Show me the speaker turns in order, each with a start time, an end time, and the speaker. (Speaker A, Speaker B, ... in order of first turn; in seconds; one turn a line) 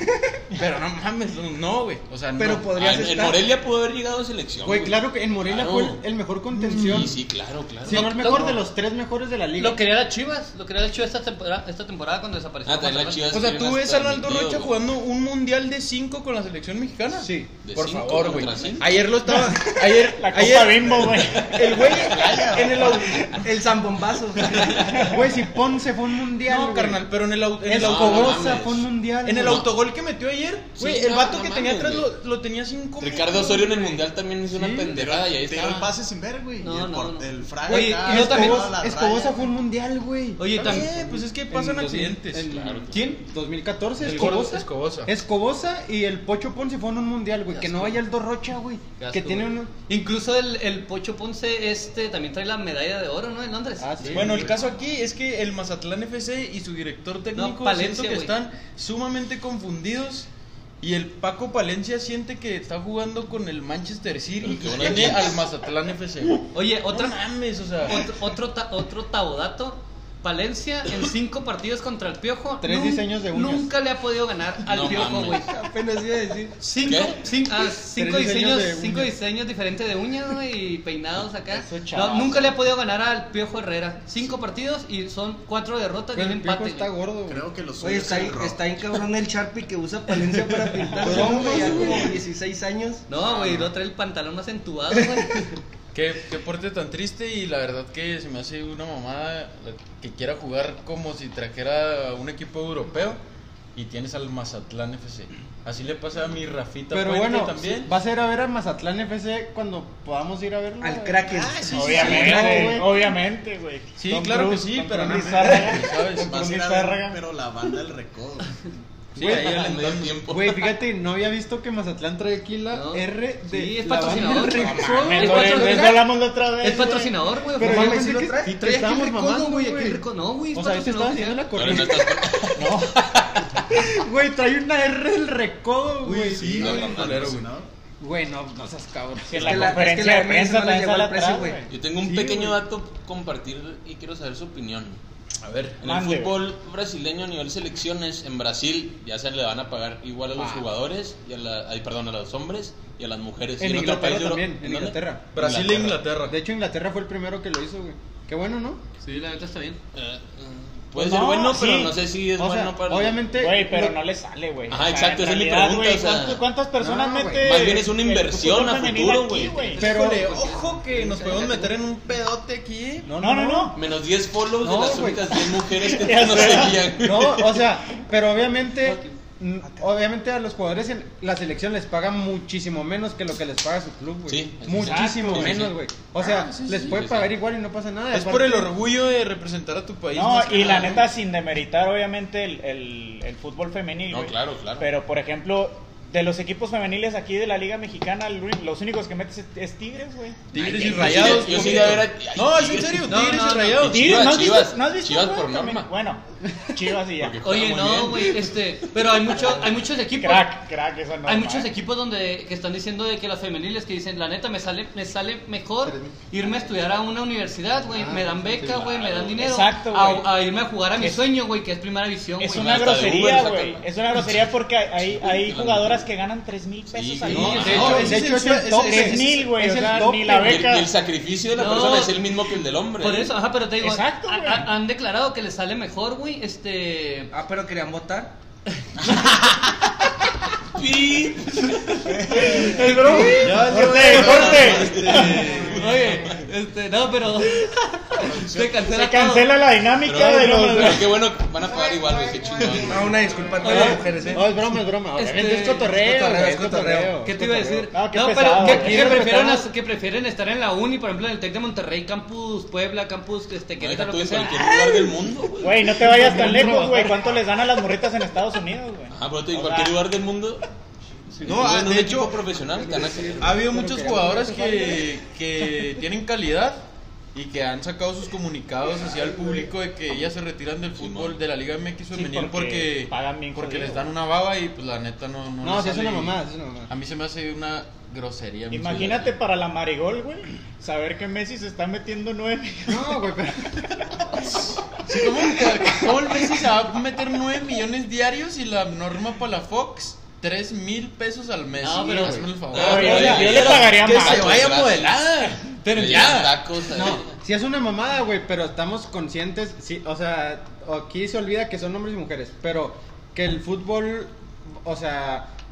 Speaker A: 0.5-2.8
Speaker B: 2.4-3.4
Speaker C: 2.7-6.0
Speaker D: 4.6-7.2
Speaker A: 6.5-7.1
Speaker C: 6.7-8.1
Speaker D: 7.8-9.8
Speaker E: 7.9-8.6
Speaker E: 9.6-13.3
Speaker C: 12.7-14.7
Speaker A: 13.3-22.9
Speaker D: 17.1-17.5
Speaker C: 17.6-19.1
Speaker F: 19.5-21.9
Speaker B: 21.7-25.0
Speaker C: 21.8-22.5
Speaker G: 21.8-22.9
Speaker F: 22.7-23.4
Speaker C: 24.6-24.9
Speaker D: 25.1-27.0
Speaker A: 26.4-28.6
Speaker D: 27.6-29.6
Speaker C: 27.7-28.9
Speaker A: 29.2-33.9
Speaker C: 29.4-29.7
Speaker C: 30.8-32.1
Speaker C: 33.0-35.9
Speaker D: 34.5-35.0
Speaker G: 34.9-39.4
Speaker E: 36.6-38.7
Speaker D: 37.7-49.7
Speaker E: 40.4-40.9
Speaker A: 40.6-42.5
Speaker C: 42.5-43.0
Speaker E: 42.9-43.2
Speaker A: 44.0-45.1
Speaker E: 47.5-48.0
Speaker E: 49.0-54.5
Speaker D: 53.8-54.5
Speaker A: 54.1-60.3
Speaker E: 57.3-58.3
Speaker A: 60.8-68.2
Speaker C: 64.4-65.4
Speaker E: 66.5-67.2
Speaker E: 67.8-75.5
Speaker D: 72.6-73.7
Speaker C: 74.7-75.5
Speaker B: 75.5-76.6
Speaker E: 76.6-86.9
Speaker C: 76.8-77.2
Speaker D: 77.6-79.1
Speaker F: 81.5-82.5
Speaker D: 86.1-87.5
Speaker G: 87.2-88.7
Speaker B: 87.8-93.1
Speaker D: 91.0-92.1
Speaker A: 91.1-92.1
Speaker E: 93.1-95.5
Speaker A: 95.9-103.2
Speaker A: 103.7-107.9
Speaker D: 106.9-113.1
Speaker B: 110.8-112.7
Speaker G: 111.3-112.4
Speaker F: 111.7-117.2
Speaker A: 114.0-116.5
Speaker G: 116.2-118.6
Speaker A: 119.1-120.2
Speaker D: 119.2-119.7
Speaker C: 119.2-120.7
Speaker D: 120.2-125.8
Speaker E: 122.7-131.5
Speaker F: 124.5-127.2
Speaker D: 127.5-132.8
Speaker B: 127.6-128.6
Speaker C: 131.5-132.7
Speaker F: 132.6-133.0
Speaker D: 133.7-136.7
Speaker A: 136.0-137.5
Speaker G: 136.3-137.7
Speaker C: 136.4-137.4
Speaker D: 138.0-139.8
Speaker F: 139.3-141.6
Speaker B: 139.4-141.6
Speaker C: 141.7-145.0
Speaker D: 142.0-142.6
Speaker A: 145.4-145.8
Speaker C: 145.8-156.0
Speaker F: 145.8-146.4
Speaker D: 150.3-150.7
Speaker D: 153.6-155.2
Speaker A: 155.3-156.3
Speaker D: 156.2-158.8
Speaker E: 159.0-159.8
Speaker C: 159.9-163.3
Speaker F: 160.9-162.0
Speaker D: 162.4-164.0
Speaker F: 163.3-169.8
Speaker C: 164.7-166.4
Speaker D: 166.8-167.6
Speaker C: 167.4-169.7
Speaker E: 169.7-170.6
Speaker D: 169.8-170.4
Speaker A: 169.8-173.1
Speaker B: 170.3-171.7
Speaker D: 173.1-173.8
Speaker F: 173.1-173.8
Speaker C: 173.7-177.6
Speaker D: 174.6-175.4
Speaker F: 175.7-177.0
Speaker D: 177.0-188.7
Speaker E: 178.8-179.2
Speaker C: 184.3-185.8
Speaker F: 184.8-185.5
Speaker A: 185.0-185.7
Speaker A: 186.2-187.1
Speaker C: 186.7-187.3
Speaker A: 188.1-191.1
Speaker F: 190.1-201.0
Speaker C: 194.1-194.9
Speaker A: 200.5-204.4
Speaker C: 200.6-203.2
Speaker E: 200.6-201.6
Speaker E: 203.1-203.8
Speaker C: 203.8-205.9
Speaker F: 203.8-206.2
Speaker F: 206.7-207.4
Speaker C: 207.2-208.5
Speaker E: 207.4-210.6
Speaker F: 210.1-211.7
Speaker E: 211.2-223.0
Speaker D: 215.8-216.2
Speaker D: 217.9-218.8
Speaker C: 218.6-219.5
Speaker F: 219.4-220.4
Speaker F: 220.9-221.3
Speaker F: 222.4-230.9
Speaker C: 222.4-226.1
Speaker C: 226.9-228.2
Speaker D: 227.3-230.6
Speaker A: 227.3-229.5
Speaker C: 230.4-233.3
Speaker E: 231.5-232.2
Speaker E: 233.0-237.3
Speaker F: 233.8-234.7
Speaker B: 237.3-238.3
Speaker G: 239.1-239.6
Speaker C: 240.8-242.2
Speaker G: 242.1-242.6
Speaker E: 242.5-243.4
Speaker F: 242.6-245.5
Speaker D: 242.6-243.5
Speaker B: 242.7-243.6
Speaker A: 243.2-246.1
Speaker G: 244.0-244.7
Speaker C: 244.4-245.3
Speaker E: 245.6-249.5
Speaker G: 248.2-248.8
Speaker F: 248.8-251.1
Speaker C: 250.0-253.2
Speaker D: 250.5-250.9
Speaker B: 252.8-254.5
Speaker E: 253.6-254.4
Speaker D: 253.6-257.9
Speaker E: 255.2-255.9
Speaker B: 255.6-257.2
Speaker E: 257.2-264.7
Speaker F: 257.9-259.2
Speaker D: 258.6-259.7
Speaker C: 263.8-266.5
Speaker F: 265.6-270.0
Speaker D: 266.1-267.2
Speaker C: 269.1-270.6
Speaker C: 271.3-273.6
Speaker A: 271.4-272.4
Speaker B: 272.8-273.6
Speaker D: 273.1-275.0
Speaker A: 273.4-276.8
Speaker A: 277.3-286.4
Speaker C: 281.0-281.4
Speaker F: 282.1-284.1
Speaker D: 285.6-286.9
Speaker A: 286.9-289.3
Speaker F: 288.7-293.3
Speaker D: 292.9-294.0
Speaker A: 294.9-306.6
Speaker E: 301.8-303.4
Speaker D: 302.2-302.5
Speaker F: 302.7-304.6
Speaker C: 302.9-305.3
Speaker C: 305.9-307.3
Speaker D: 306.9-315.5